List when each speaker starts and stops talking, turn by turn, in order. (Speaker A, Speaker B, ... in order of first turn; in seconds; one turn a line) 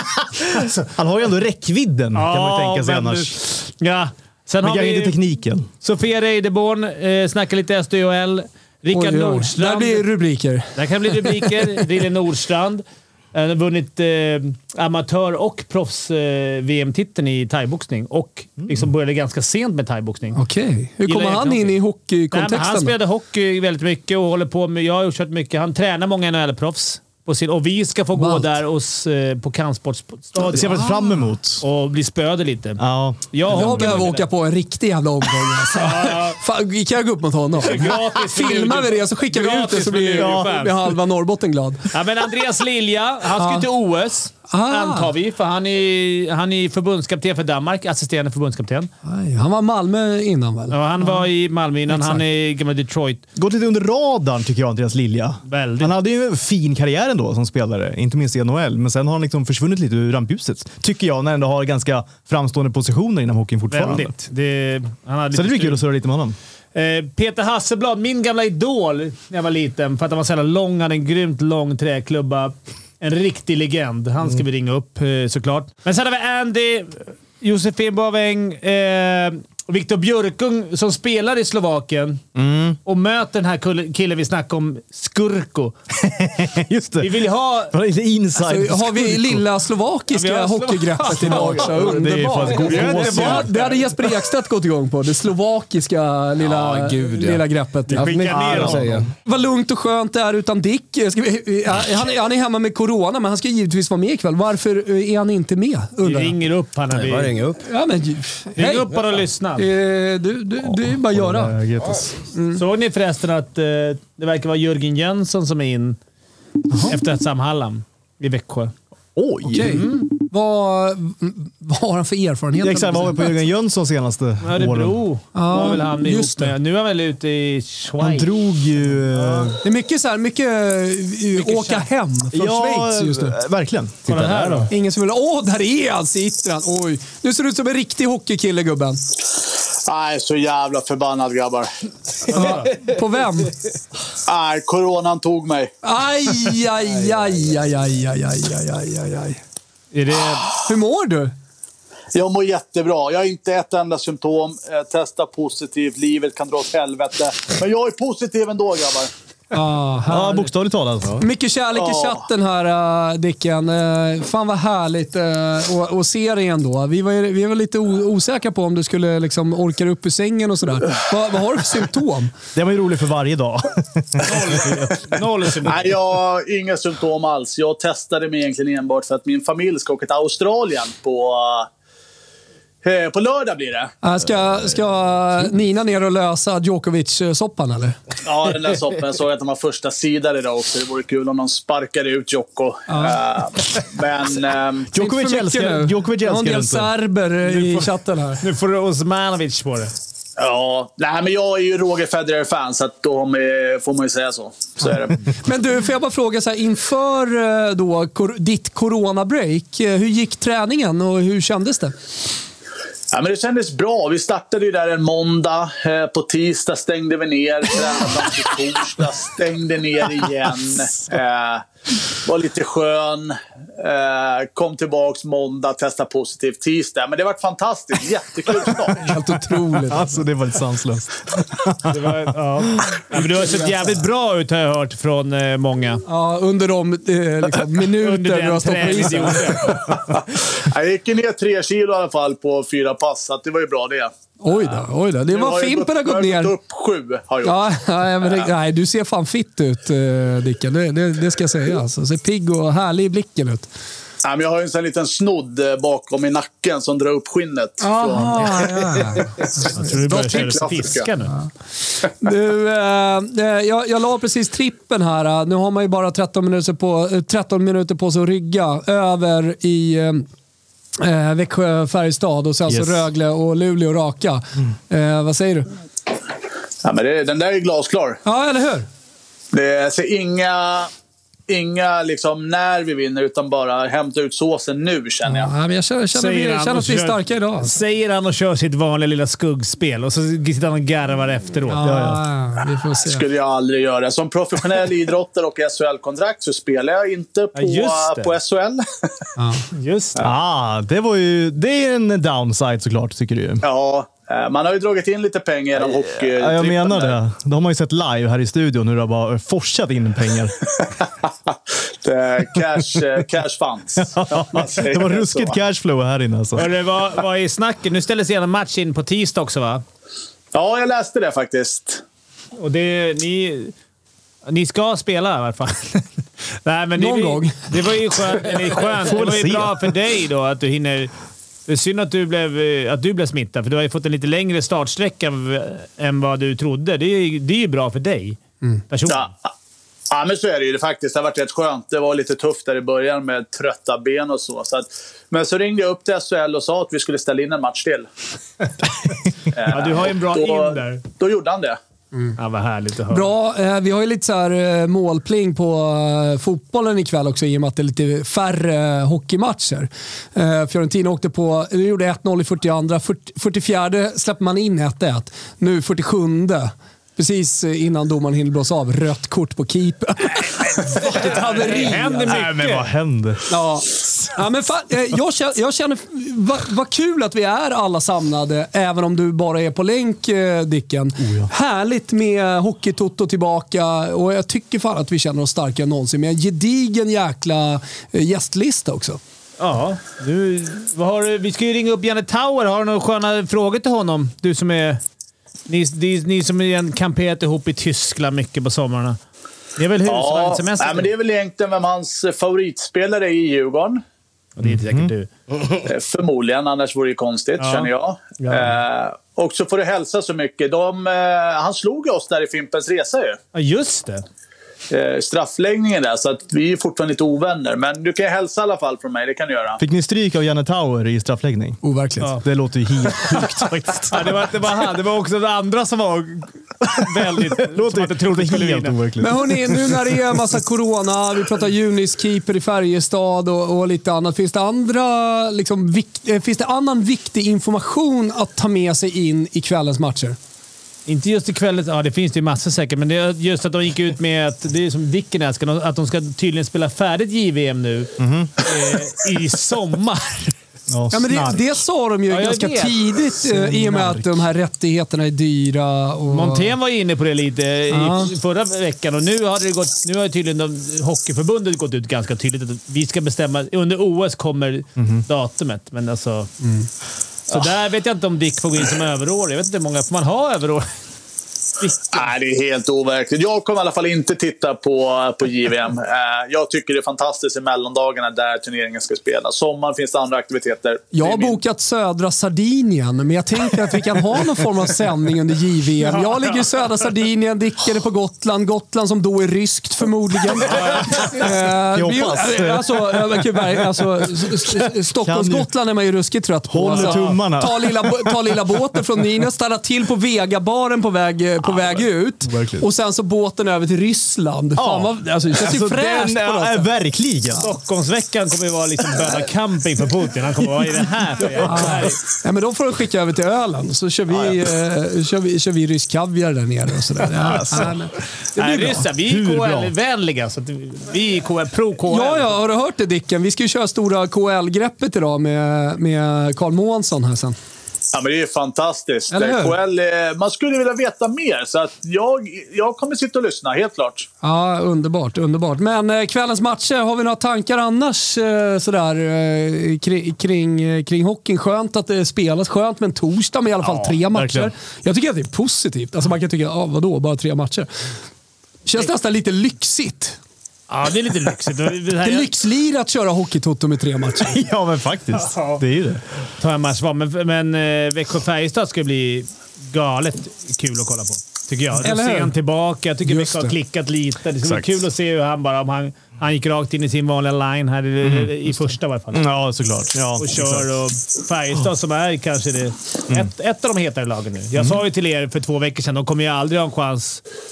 Speaker A: 0.5-0.8
Speaker B: 0.9-3.4
Speaker A: 2.1-5.2
Speaker B: 4.6-5.7
Speaker A: 5.8-10.1
Speaker C: 8.9-11.7
Speaker A: 10.8-20.4
Speaker B: 18.6-18.9
Speaker C: 20.4-22.9
Speaker A: 21.1-21.8
Speaker A: 22.3-30.8
Speaker C: 28.1-28.5
Speaker B: 30.4-31.6
Speaker A: 31.6-32.8
Speaker B: 32.8-34.1
Speaker A: 33.3-34.2
Speaker C: 33.5-41.9
Speaker A: 35.8-36.4
Speaker A: 37.6-40.8
Speaker B: 40.1-40.7
Speaker A: 41.9-48.9
Speaker C: 43.4-43.6
Speaker C: 44.5-45.1
Speaker C: 49.0-51.2
Speaker A: 50.7-53.2
Speaker C: 51.9-52.2
Speaker B: 53.4-64.1
Speaker A: 55.5-55.9
Speaker A: 63.7-65.8
Speaker B: 65.3-66.4
Speaker A: 66.8-82.2
Speaker B: 82.3-82.8
Speaker A: 82.8-85.8
Speaker B: 86.0-89.4
Speaker A: 87.0-87.7
Speaker C: 88.5-98.1
Speaker A: 90.1-92.0
Speaker B: 91.3-93.5
Speaker A: 92.5-93.7
Speaker D: 96.4-99.1
Speaker A: 97.9-98.8
Speaker B: 98.1-99.1
Speaker C: 99.2-106.4
Speaker A: 106.0-107.3
Speaker D: 106.9-107.6
Speaker C: 107.7-108.9
Speaker A: 108.6-109.7
Speaker C: 109.6-111.5
Speaker B: 110.6-112.2
Speaker C: 112.3-112.6
Speaker A: 112.6-116.0
Speaker A: 116.9-118.7
Speaker B: 119.2-119.8
Speaker C: 119.5-123.3
Speaker A: 119.6-120.0
Speaker B: 122.6-125.0
Speaker A: 124.4-128.3
Speaker C: 125.3-126.5
Speaker B: 128.0-129.6
Speaker A: 129.1-129.6
Speaker C: 129.6-133.4
Speaker A: 131.4-131.9
Speaker B: 132.3-134.7
Speaker A: 134.1-134.7
Speaker C: 134.7-139.0
Speaker E: 139.9-141.7
Speaker A: 142.3-142.8
Speaker C: 142.3-143.5
Speaker E: 144.3-145.7
Speaker C: 145.8-149.4
Speaker A: 149.9-150.5
Speaker C: 150.6-151.3
Speaker E: 152.1-159.1
Speaker C: 159.5-160.5
Speaker B: 160.1-161.2
Speaker C: 161.2-172.3
Speaker E: 161.8-162.2
Speaker B: 172.6-174.9
Speaker A: 174.2-176.0
Speaker E: 175.7-181.7
Speaker E: 182.8-183.9
Speaker C: 184.0-188.0
Speaker E: 188.2-194.9
Speaker C: 192.9-193.2
Speaker B: 194.9-196.9
Speaker C: 195.0-198.4
Speaker A: 197.5-199.9
Speaker E: 200.4-205.2
Speaker C: 205.4-211.9
Speaker E: 213.1-221.7
Speaker E: 222.2-229.1
Speaker C: 229.0-230.2
Speaker B: 229.9-232.1
Speaker A: 231.9-236.0
Speaker C: 236.1-239.6
Speaker A: 238.0-239.8
Speaker E: 240.6-244.1
Speaker C: 244.4-246.5
Speaker E: 245.3-247.6
Speaker C: 247.4-253.7
Speaker E: 254.2-261.1
Speaker C: 257.8-259.3
Speaker A: 259.7-261.3
Speaker C: 262.1-270.2
Speaker C: 271.0-275.7
Speaker B: 272.7-273.1
Speaker E: 276.8-278.2
Speaker C: 278.2-278.9
Speaker E: 279.5-280.9
Speaker E: 281.5-285.5
Speaker C: 285.3-287.8
Speaker A: 286.1-291.9
Speaker C: 291.7-293.2
Speaker B: 291.8-292.2
Speaker E: 293.0-299.1
Speaker A: 297.6-298.3
Speaker C: 299.4-299.6
Speaker A: 299.8-300.2
Speaker B: 300.2-303.6
Speaker E: 303.6-307.2
Speaker B: 305.8-310.6
Speaker E: 312.0-315.6
Speaker B: 314.0-316.7
Speaker A: 316.6-319.8
Speaker E: 320.5-322.0
Speaker A: 322.6-323.7
Speaker A: 324.5-326.1
Speaker A: 326.6-331.1
Speaker C: 327.0-327.6
Speaker B: 329.0-329.9
Speaker A: 331.7-338.4
Speaker A: 338.9-339.3
Speaker E: 339.1-339.5
Speaker E: 340.1-348.1
Speaker E: 349.5-351.8
Speaker A: 349.7-351.0
Speaker A: 352.4-353.3
Speaker C: 353.1-372.4
Speaker A: 370.8-372.9
Speaker B: 372.3-373.5
Speaker C: 373.5-389.2
Speaker B: 381.2-381.5
Speaker A: 389.6-395.0
Speaker A: 395.7-399.2
Speaker A: 399.8-401.1
Speaker E: 400.1-404.0
Speaker A: 404.6-405.3
Speaker B: 404.6-405.1
Speaker E: 405.9-413.4
Speaker A: 407.6-408.7
Speaker A: 413.5-414.2
Speaker E: 414.9-419.8
Speaker B: 419.8-421.8
Speaker C: 421.8-422.3
Speaker B: 422.4-424.5
Speaker A: 424.1-429.0
Speaker B: 427.0-430.1
Speaker C: 429.2-440.4
Speaker A: 441.1-450.5
Speaker B: 448.2-448.5
Speaker B: 450.9-451.7
Speaker C: 451.1-456.7
Speaker A: 452.3-454.2
Speaker A: 456.3-466.5
Speaker C: 457.9-458.3
Speaker B: 465.0-465.2
Speaker C: 466.6-466.9
Speaker A: 467.5-470.9
Speaker A: 471.8-472.3
Speaker E: 472.1-481.6
Speaker C: 481.1-506.9
Speaker A: 486.1-486.6
Speaker A: 490.7-491.1
Speaker B: 491.9-494.0
Speaker B: 494.7-495.7
Speaker B: 496.7-498.4
Speaker A: 496.9-497.4
Speaker B: 501.6-502.9
Speaker B: 504.8-507.7
Speaker A: 507.6-512.2
Speaker C: 511.6-519.1
Speaker B: 517.4-518.0
Speaker A: 518.6-522.5
Speaker B: 519.2-519.9
Speaker C: 522.1-527.6
Speaker E: 528.1-534.3
Speaker C: 529.3-529.8
Speaker C: 534.4-547.9
Speaker B: 544.3-544.7
Speaker C: 548.9-550.4
Speaker A: 550.9-552.5
Speaker C: 552.2-554.5
Speaker B: 554.4-556.2
Speaker A: 555.4-555.8
Speaker A: 556.6-569.4
Speaker C: 562.0-562.5
Speaker C: 563.3-563.7
Speaker B: 564.6-565.0
Speaker B: 568.2-570.9
Speaker A: 570.4-577.4
Speaker B: 574.8-575.0